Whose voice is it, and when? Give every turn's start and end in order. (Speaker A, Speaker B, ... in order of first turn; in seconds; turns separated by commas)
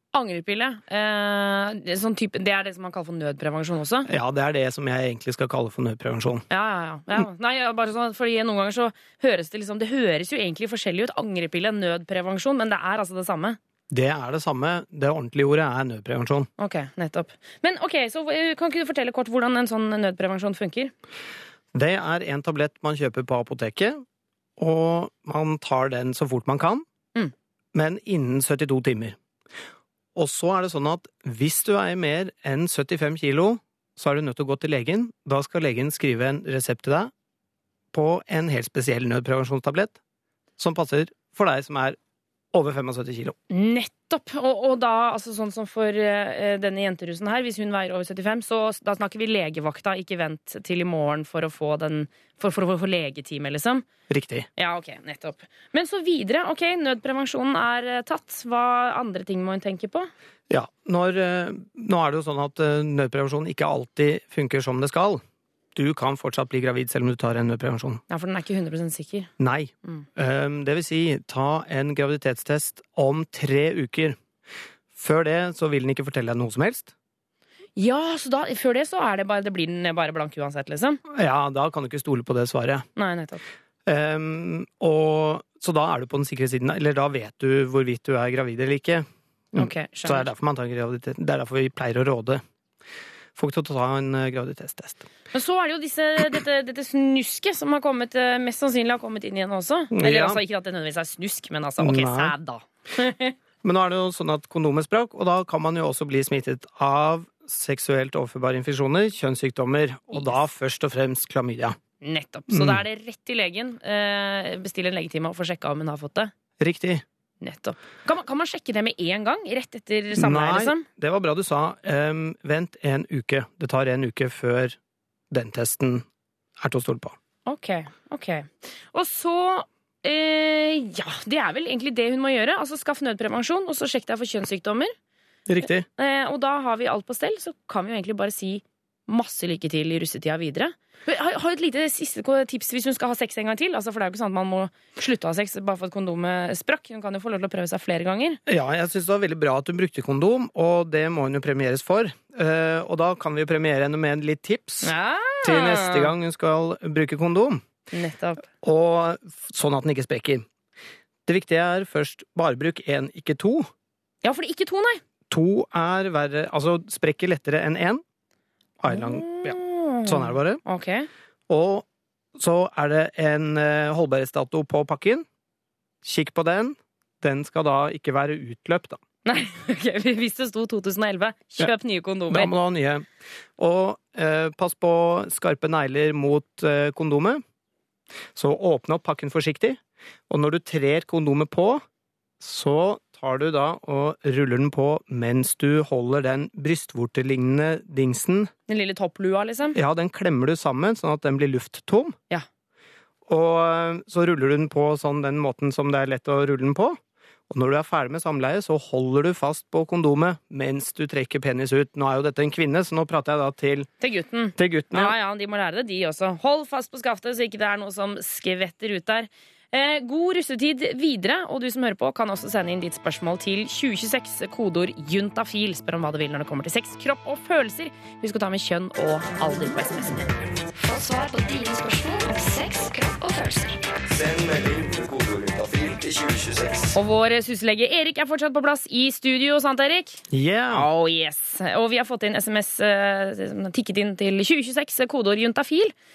Speaker A: 0.1-4.1, Speaker B: 4.0-6.4, Speaker A: 6.5-13.6, Speaker B: 13.9-16.5, Speaker A: 16.6-20.9, Speaker B: 21.7-24.0, Speaker B: 24.6-26.9, Speaker B: 27.7-29.2, Speaker B: 30.1-37.1, Speaker B: 37.9-40.0, Speaker B: 40.6-42.0, Speaker B: 42.5-43.4, Speaker A: 43.5-53.8, Speaker B: 54.1-54.5, Speaker A: 54.6-60.1, Speaker B: 60.5-65.2, Speaker B: 65.7-68.0, Speaker A: 68.1-69.3, Speaker B: 69.4-74.2, Speaker B: 74.9-76.9, Speaker A: 77.8-81.0, Speaker B: 81.1-82.8, Speaker A: 83.0-83.4, Speaker B: 83.8-92.4, Speaker A: 89.5-90.3, Speaker B: 93.3-95.1, Speaker A: 95.3-103.3, Speaker B: 99.9-100.4, Speaker B: 101.8-102.3, Speaker B: 103.6-111.8, Speaker A: 110.1-110.4, Speaker A: 112.0-116.3, Speaker B: 112.5-112.8, Speaker B: 116.6-117.0, Speaker A: 117.4-120.8, Speaker B: 120.1-124.8, Speaker B: 125.3-126.0, Speaker B: 126.6-127.2, Speaker A: 127.5-134.9, Speaker B: 135.5-135.8, Speaker A: 135.6-148.4, Speaker B: 148.4-157.6, Speaker A: 154.8-156.1, Speaker A: 157.9-158.4, Speaker B: 158.6-160.4, Speaker B: 161.2-163.7, Speaker A: 164.2-165.0, Speaker B: 165.3-168.0, Speaker B: 168.8-170.6, Speaker A: 168.9-171.1, Speaker B: 171.5-175.2, Speaker B: 176.0-179.0, Speaker A: 179.2-182.5, Speaker B: 182.3-187.4, Speaker B: 188.3-191.8, Speaker B: 192.4-198.5, Speaker A: 198.7-199.8, Speaker B: 199.7-202.2, Speaker B: 203.3-207.0, Speaker B: 207.5-213.9, Speaker A: 214.0-230.3, Speaker B: 214.6-215.1, Speaker C: 230.7-233.7, Speaker D: 234.1-236.9, Speaker A: 236.9-245.9, Speaker B: 240.3-240.9